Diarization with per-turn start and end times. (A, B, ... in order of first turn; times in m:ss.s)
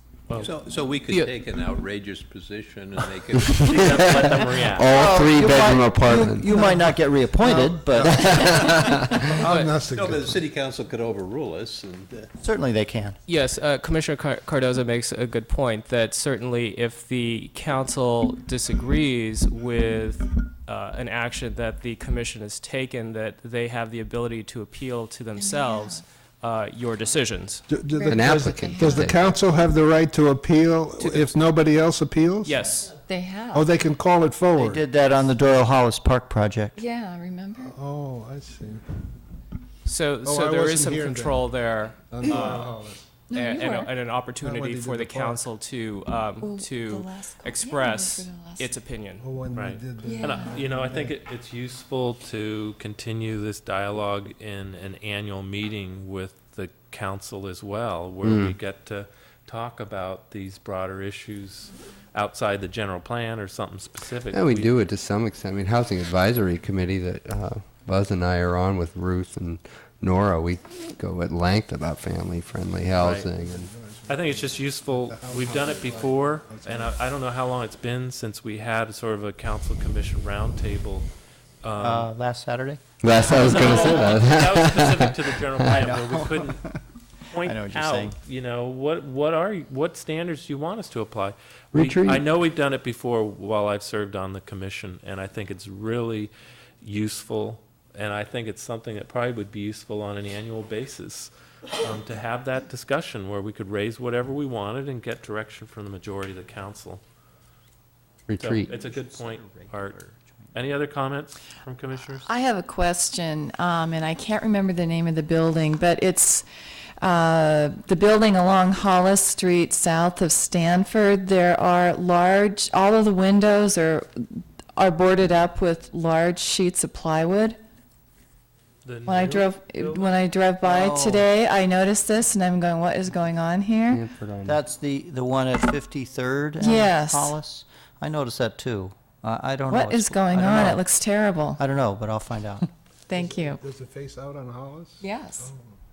0:00.4-0:04.3 A
0:01.1-0:01.4 B
0:03.6-0:04.9 C
0:03.7-0:04.0 D
0:04.7-0:06.5 D
0:04.9-0:08.9 E
0:07.4-0:08.1 F
0:08.2-0:12.3 A
0:09.2-0:10.5 F
0:09.4-0:09.8 B
0:12.4-0:13.2 E
0:13.3-0:27.8 B
0:25.4-0:26.0 G
0:27.7-0:32.6 F
0:27.9-0:29.3 G
0:28.1-0:29.2 D
0:31.0-0:31.4 B
0:32.4-0:33.0 B
0:33.0-0:33.7 G
0:33.5-0:34.8 F
0:34.6-0:36.8 E
0:36.8-0:37.7 G
0:37.6-0:39.0 F
0:39.8-0:42.8 B
0:40.2-0:41.5 F
0:42.1-0:43.2 F
0:43.3-0:43.9 G
0:43.4-0:49.3 B
0:44.4-0:45.5 F
0:46.4-0:48.8 G
0:49.2-0:51.2 F
0:49.5-1:04.7 C
0:50.0-0:50.6 G
0:58.2-0:58.6 D
1:04.3-1:13.7 D
1:13.0-1:13.3 C
1:13.3-1:17.0 F
1:14.1-1:21.1 C
1:21.6-1:22.1 C
1:21.8-1:24.1 E
1:23.0-1:25.8 D
1:23.3-1:26.6 C
1:25.7-1:26.8 E
1:27.3-1:47.0 C
1:27.4-1:28.2 E
1:31.7-1:32.2 D
1:48.3-1:48.7 D
1:48.4-1:50.0 C
1:48.7-1:50.7 E
1:50.5-1:52.3 C
1:52.3-1:56.5 G
1:57.0-2:07.6 G
2:08.8-2:10.2 C
2:09.1-2:14.0 G
2:10.6-2:11.3 E
2:13.9-2:14.6 D
2:14.5-2:20.9 E
2:16.6-2:17.4 G
2:19.7-2:21.6 G
2:21.6-2:22.7 E
2:23.1-2:23.6 G
2:23.1-2:25.8 F
2:25.0-2:25.5 G